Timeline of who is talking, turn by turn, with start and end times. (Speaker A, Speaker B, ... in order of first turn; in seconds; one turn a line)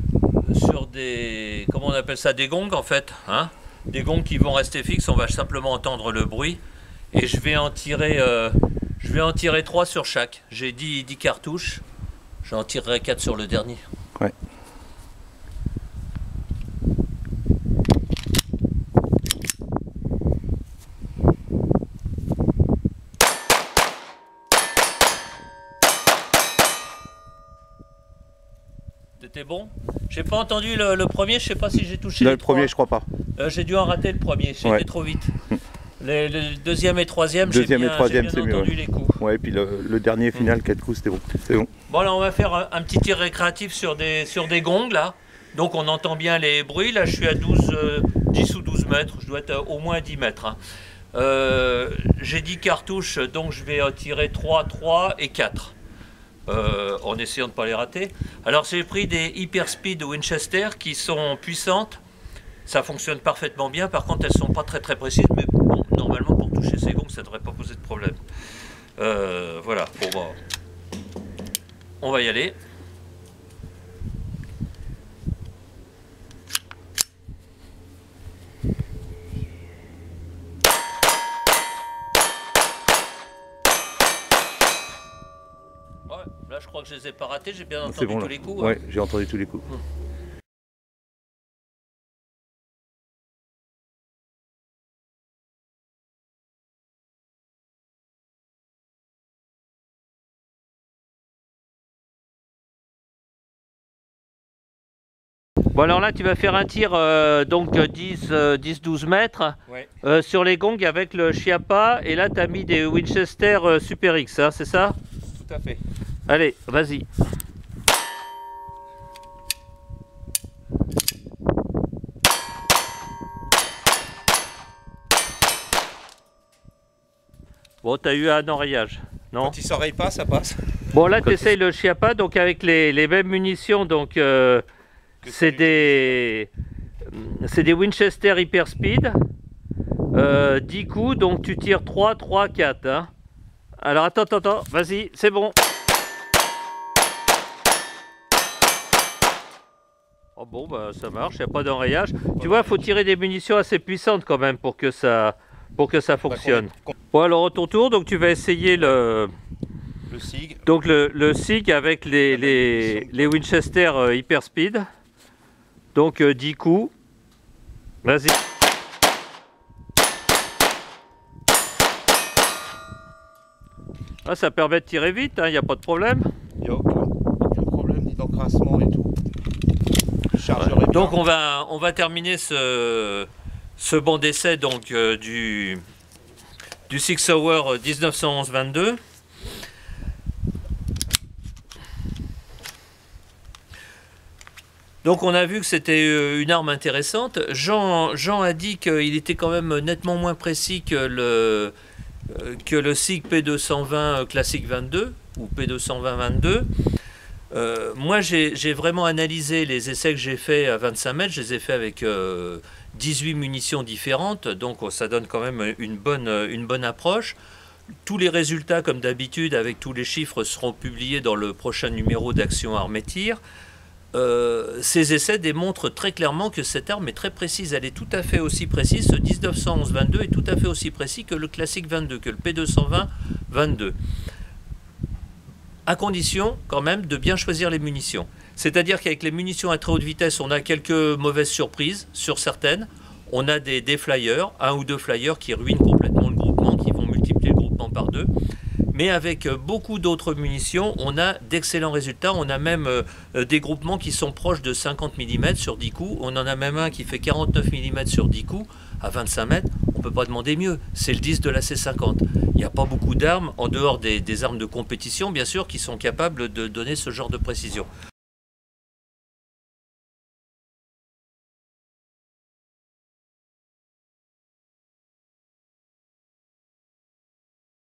Speaker A: 0.4-6.6
Speaker A: 7.1-11.8
Speaker A: 12.4-13.8
Speaker A: 29.2-32.7
Speaker B: 32.2-33.1
Speaker A: 33.4-35.3
Speaker A: 36.0-39.2
Speaker B: 37.4-41.7
Speaker A: 41.9-50.6
Speaker A: 51.1-55.7
Speaker A: 56.5-62.0
Speaker A: 62.6-68.2
Speaker A: 69.0-70.4
Speaker A: 72.0-72.6
Speaker A: 86.1-88.8
Speaker B: 87.8-89.7
Speaker A: 105.7-115.0
Speaker C: 115.4-115.8
Speaker A: 116.3-117.0
Speaker A: 127.8-129.6
Speaker C: 129.4-130.6
Speaker A: 130.9-134.6
Speaker A: 135.2-136.5
Speaker C: 135.3-135.8
Speaker A: 137.1-139.2
Speaker A: 140.1-143.1
Speaker A: 143.8-145.6
Speaker A: 150.3-159.3
Speaker C: 152.4-152.7
Speaker C: 160.1-160.6
Speaker A: 160.7-164.8
Speaker C: 162.3-163.2
Speaker A: 165.9-166.9
Speaker A: 168.0-168.4
Speaker A: 174.2-176.3
Speaker C: 176.6-179.1
Speaker C: 180.3-181.1
Speaker A: 180.6-185.8
Speaker A: 186.9-189.0
Speaker A: 195.0-201.7
Speaker A: 202.3-206.7
Speaker A: 207.5-217.3
Speaker A: 218.0-223.4
Speaker A: 224.1-233.9
Speaker A: 235.9-248.3
Speaker A: 248.9-267.9